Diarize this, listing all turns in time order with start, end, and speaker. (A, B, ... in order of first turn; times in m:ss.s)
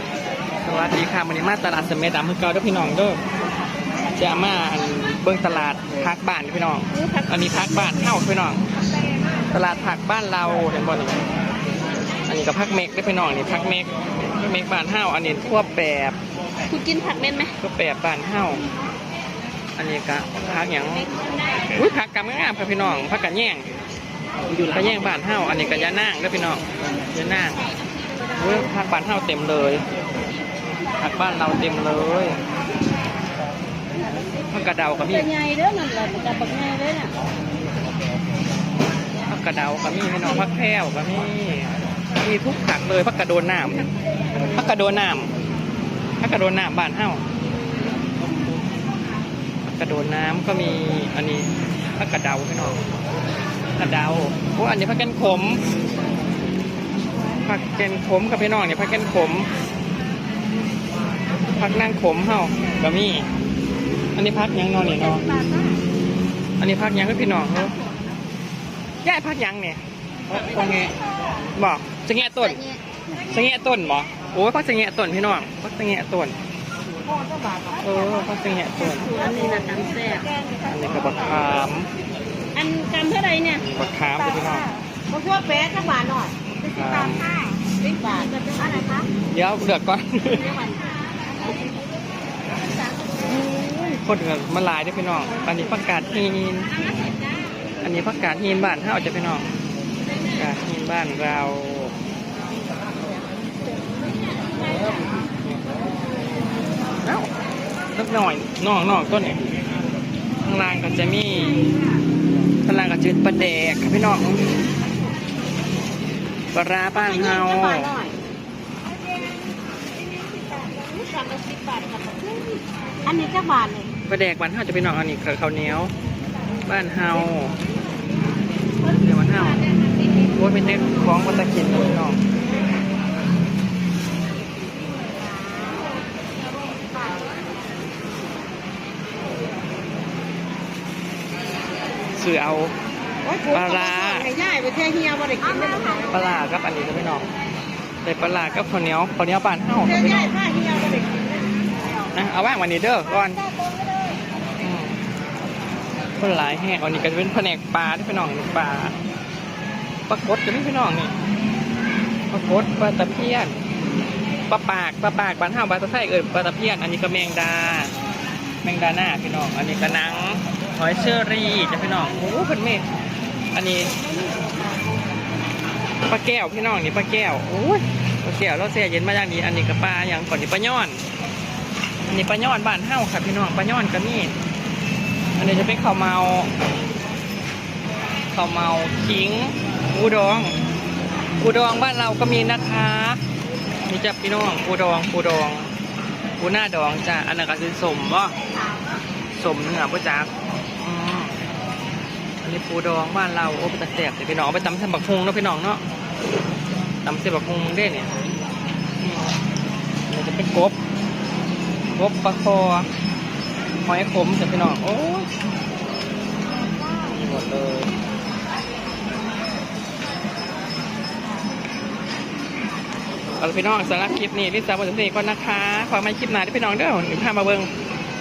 0:00.6-0:03.2 A
0:04.1-0:08.6 A
0:07.0-0:07.3 B
0:09.5-0:11.2 A
0:12.3-0:16.2 A
0:16.7-0:17.6 B
0:17.6-0:18.6 A
0:19.8-0:21.1 A
0:21.7-0:23.7 A
0:24.6-0:27.7 A
0:28.3-0:29.8 A
0:31.0-0:32.4 A
0:34.5-0:35.3 A
0:35.3-0:37.1 B
0:39.3-0:43.9 A
0:44.4-0:45.3 A
0:46.2-0:47.2 A
0:49.8-0:52.8 A
0:53.8-0:55.6 A
0:57.4-0:59.5 A
1:01.5-1:03.3 A
1:04.2-1:05.3 A
1:06.6-1:07.8 A
1:09.0-1:09.8 A
1:10.4-1:10.9 A
1:11.6-1:12.7 A
1:13.3-1:16.4 A
1:17.8-1:19.2 A
1:19.0-1:20.4 B
1:20.6-1:21.9 A
1:22.5-1:23.6 B
1:23.6-1:24.7 A
1:25.1-1:29.1 B
1:26.6-1:27.4 A
1:29.3-1:30.4 A
1:30.3-1:30.9 B
1:33.1-1:33.3 B
1:33.4-1:36.7 A
1:37.8-1:39.5 A
1:40.3-1:41.9 A
1:47.0-1:47.3 A
1:47.9-1:49.4 A
1:50.4-1:51.6 A
1:52.6-1:54.6 A
1:56.5-1:57.9 A
1:57.0-1:58.2 B
2:00.8-2:03.9 B
2:04.1-2:05.9 A
2:06.6-2:07.6 A
2:08.8-2:09.6 A
2:10.3-2:12.2 A
2:22.1-2:22.8 A
2:23.2-2:26.1 B
2:23.5-2:24.3 A
2:26.1-2:27.3 A
2:28.0-2:30.4 A
2:30.2-2:31.3 B
2:32.1-2:33.4 A
2:33.7-2:34.0 B
2:34.6-2:35.0 A
2:36.2-2:39.0 A
2:40.1-2:41.1 A
2:42.3-2:43.6 A
2:44.5-2:47.9 A
2:48.6-2:52.9 A
2:53.5-2:53.9 A
2:54.2-2:54.5 B
2:56.1-3:01.0 A
3:02.1-3:04.4 A
3:05.4-3:06.5 A
3:08.3-3:10.6 A
3:11.4-3:13.2 A
3:13.8-3:15.7 A
3:16.4-3:18.3 A
3:19.3-3:21.3 A
3:22.4-3:25.8 A
3:27.0-3:28.1 A
3:29.0-3:29.4 A
3:30.1-3:30.8 A
3:31.9-3:32.9 A
3:33.8-3:35.3 A
3:37.1-3:37.9 A
3:43.4-3:47.7 A